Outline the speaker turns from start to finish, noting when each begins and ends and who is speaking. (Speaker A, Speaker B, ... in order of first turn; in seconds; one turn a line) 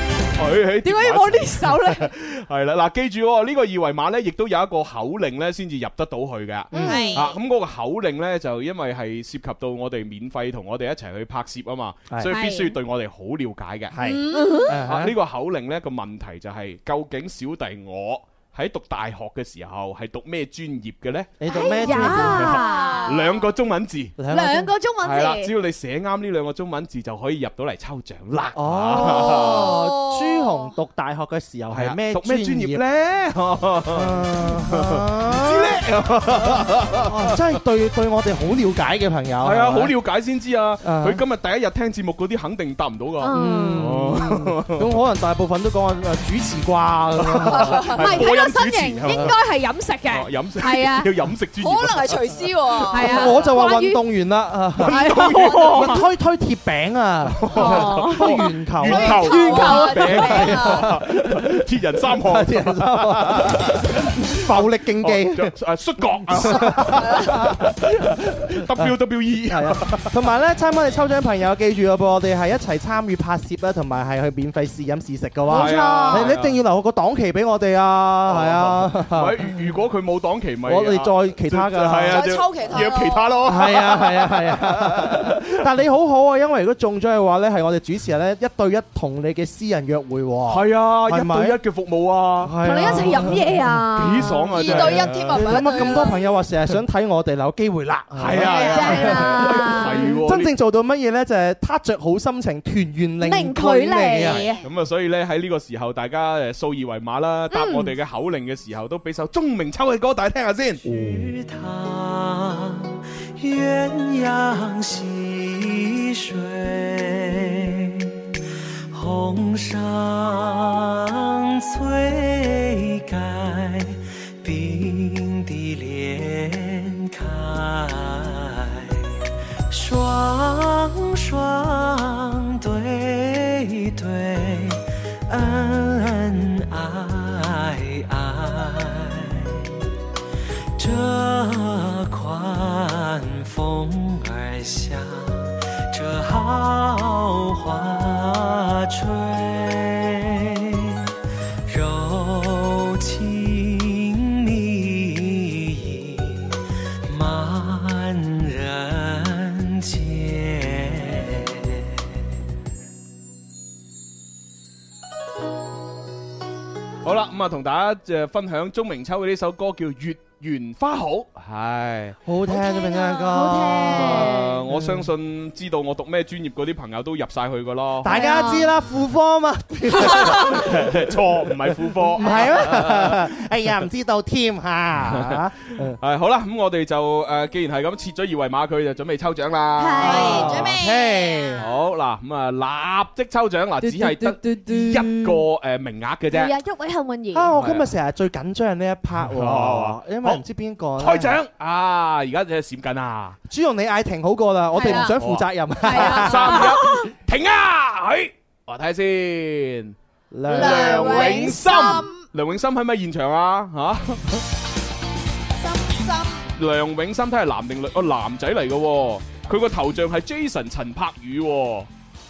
Speaker A: 0.4-13.9
Speaker B: 0.8-2.1
Speaker C: 6.7-7.0
Speaker B: 6.7-7.2
Speaker D: 6.8-7.3
Speaker C: 12.1-12.3
Speaker B: 12.3-12.8
Speaker C: 13.9-15.2
Speaker D: 14.0-14.7
Speaker B: 14.3-14.8
Speaker A: 14.8-24.2
Speaker C: 21.4-22.6
Speaker B: 21.5-23.2
Speaker D: 22.6-23.5
Speaker C: 24.2-24.7
Speaker B: 24.3-25.5
Speaker A: 25.0-29.8
Speaker C: 28.6-32.8
Speaker D: 29.2-30.7
Speaker A: 31.7-37.4
Speaker C: 33.9-35.8
Speaker C: 36.4-40.0
Speaker A: 39.4-45.0
Speaker C: 40.8-41.2
Speaker B: 43.2-43.9
Speaker C: 43.3-48.0
Speaker A: 47.3-49.4
Speaker B: 47.9-51.1
Speaker A: 50.1-52.3
Speaker D: 51.6-53.5
Speaker B: 52.9-54.0
Speaker C: 53.0-55.0
Speaker A: 54.8-56.0
Speaker B: 54.8-56.0
Speaker C: 55.6-59.3
Speaker A: 57.3-70.1
Speaker B: 57.5-60.5
Speaker D: 58.9-60.9
Speaker C: 60.1-61.6
Speaker C: 62.1-65.5
Speaker C: 66.3-67.6
Speaker D: 66.9-67.4
Speaker C: 69.5-79.4
Speaker B: 75.5-76.3
Speaker A: 75.5-76.6
Speaker A: 78.3-85.5
Speaker C: 80.7-82.2
Speaker D: 82.1-83.4
Speaker C: 83.5-91.6
Speaker A: 90.5-96.0
Speaker C: 92.4-93.4
Speaker B: 92.6-94.6
Speaker D: 94.5-96.4
Speaker C: 94.6-104.5
Speaker A: 98.2-100.5
Speaker B: 98.3-100.2
Speaker B: 103.2-104.6
Speaker A: 104.3-110.9
Speaker B: 107.5-107.9
Speaker E: 110.9-118.0
Speaker E: 118.9-129.2
Speaker E: 129.7-139.7
Speaker E: 140.8-150.9
Speaker E: 151.7-156.5
Speaker E: 157.1-161.8
Speaker A: 167.0-172.2
Speaker C: 172.3-175.1
Speaker B: 172.5-174.6
Speaker A: 173.9-178.2
Speaker C: 178.0-180.9
Speaker B: 178.1-178.7
Speaker A: 180.0-183.2
Speaker C: 182.2-186.0
Speaker A: 185.0-190.7
Speaker B: 189.8-190.5
Speaker C: 190.0-191.7
Speaker D: 190.0-191.7
Speaker A: 191.6-196.6
Speaker B: 193.8-195.4
Speaker B: 196.3-197.5
Speaker C: 197.3-201.4
Speaker A: 197.6-197.9
Speaker A: 199.2-200.4
Speaker A: 201.0-203.4
Speaker C: 203.5-206.7
Speaker B: 204.7-205.2
Speaker A: 204.9-210.0
Speaker B: 205.8-207.1
Speaker C: 210.3-211.6
Speaker B: 210.5-211.7
Speaker A: 210.5-214.4
Speaker D: 210.9-212.2
Speaker D: 215.6-216.4
Speaker A: 216.6-221.9